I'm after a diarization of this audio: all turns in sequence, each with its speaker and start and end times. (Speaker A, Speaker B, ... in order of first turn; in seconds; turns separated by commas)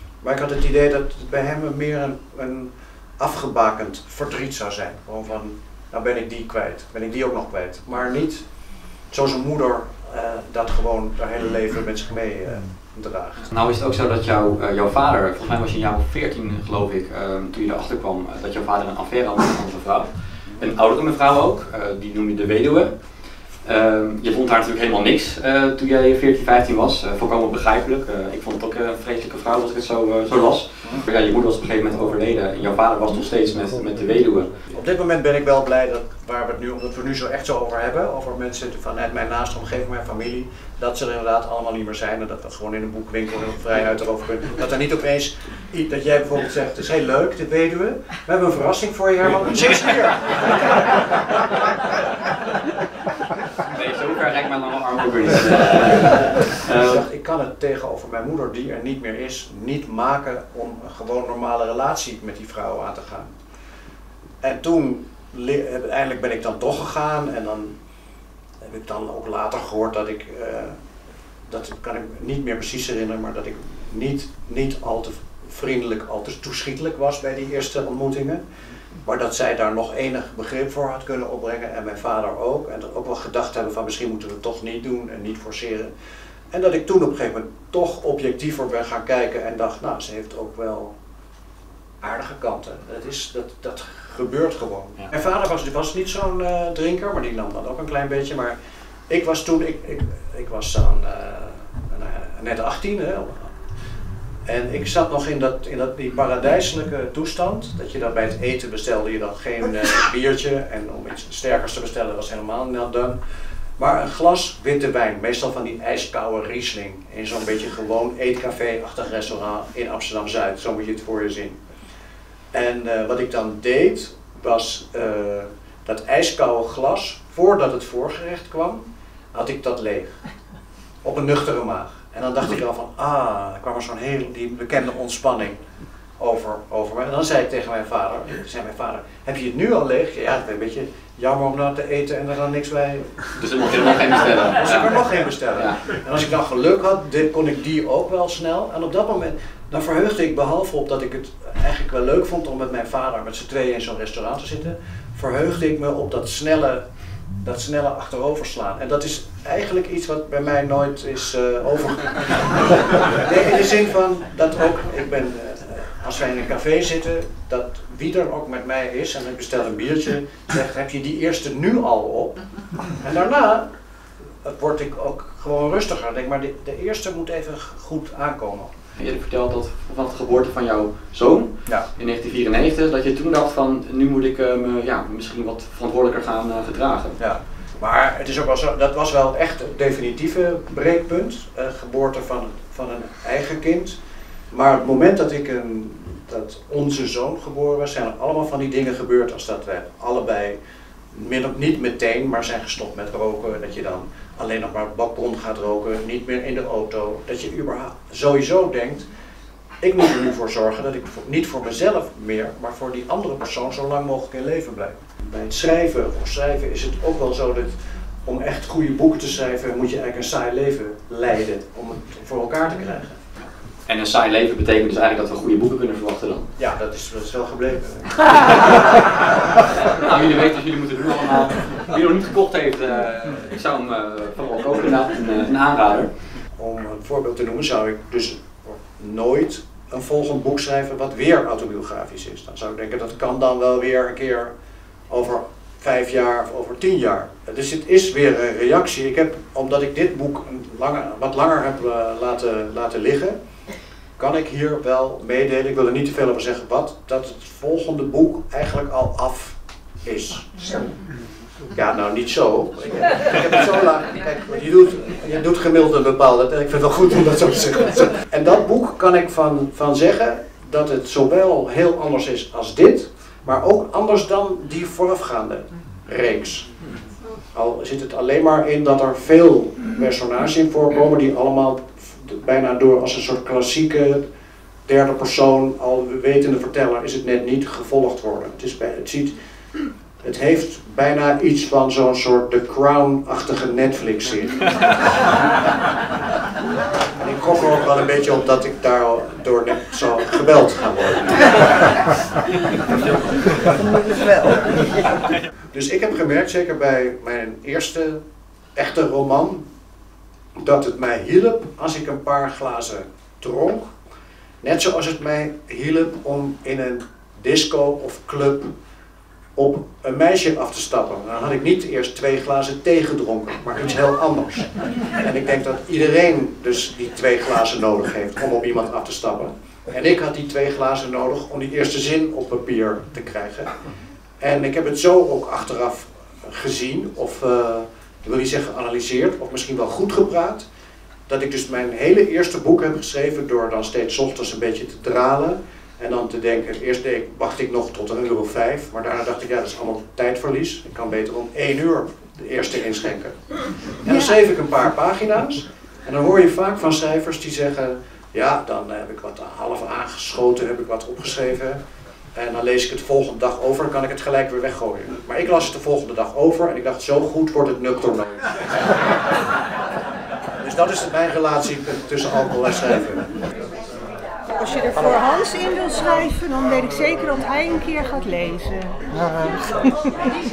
Speaker A: 0.2-8.4, Speaker A: 9.1-13.5, Speaker B: 13.5-23.0, Speaker B: 23.6-34.7, Speaker A: 34.7-51.0, Speaker B: 53.7-57.1, Speaker A: 56.8-63.3, Speaker A: 64.4-67.8, Speaker A: 68.6-70.8, Speaker A: 71.5-78.4, Speaker A: 79.0-85.9, Speaker A: 86.5-90.9, Speaker A: 92.0-98.5, Speaker A: 99.1-103.5, Speaker A: 104.5-113.2, Speaker A: 113.8-121.6, Speaker A: 122.5-130.2, Speaker A: 131.0-135.6, Speaker A: 136.2-143.3, Speaker B: 143.4-145.8, Speaker A: 144.5-156.8, Speaker A: 157.4-172.4, Speaker A: 173.0-173.7, Speaker A: 174.4-178.7, Speaker B: 179.0-187.2, Speaker A: 187.2-194.0, Speaker A: 194.5-200.6, Speaker A: 201.1-209.1, Speaker A: 209.8-223.2, Speaker B: 223.4-226.5, Speaker A: 226.6-229.2, Speaker B: 229.8-236.1, Speaker A: 236.6-244.5, Speaker A: 245.1-253.4, Speaker A: 254.2-260.9, Speaker A: 261.7-276.7, Speaker A: 277.5-284.2, Speaker A: 284.9-289.4, Speaker A: 290.2-294.6, Speaker A: 297.2-301.9, Speaker A: 305.7-308.2, Speaker A: 308.8-309.6, Speaker A: 310.6-313.9, Speaker A: 314.6-318.8, Speaker A: 319.6-333.7, Speaker A: 334.4-340.6, Speaker A: 341.3-353.4, Speaker A: 353.9-361.8, Speaker A: 362.4-368.6, Speaker A: 370.6-373.3, Speaker C: 374.6-379.2